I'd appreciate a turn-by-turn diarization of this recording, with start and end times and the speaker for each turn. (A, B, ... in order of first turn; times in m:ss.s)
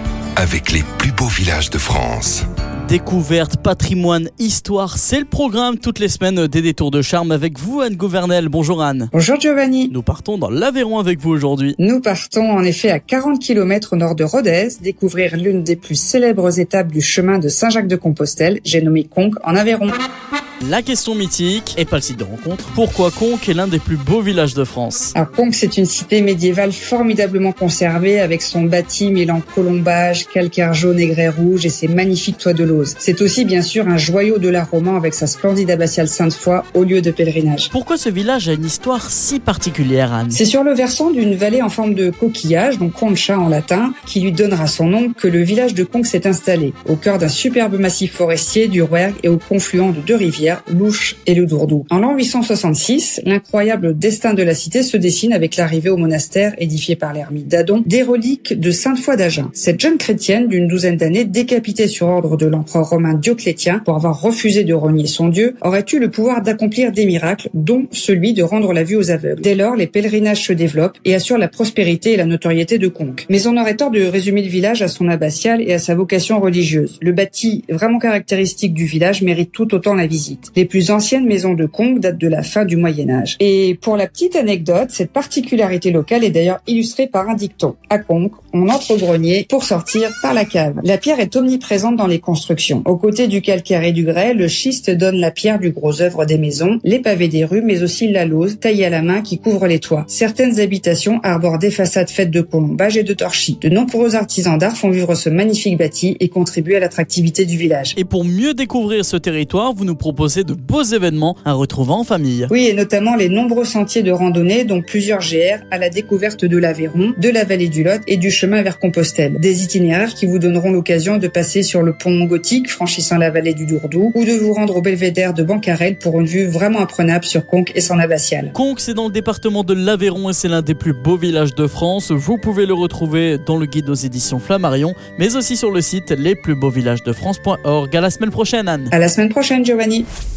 0:00.4-0:02.4 A
0:02.9-0:09.1 B
0:09.1-0:09.9 C
0:09.9-0:11.8 B
0:11.8-0:20.0 C
0:20.6-0:25.1 B
0:25.2-0:37.7 C
0:37.7-0:40.4 B
0:40.3-1:48.0 C
1:48.0-1:52.5 B
1:52.5-2:08.5 C
2:08.5-2:18.9 B
2:18.9-2:20.1 C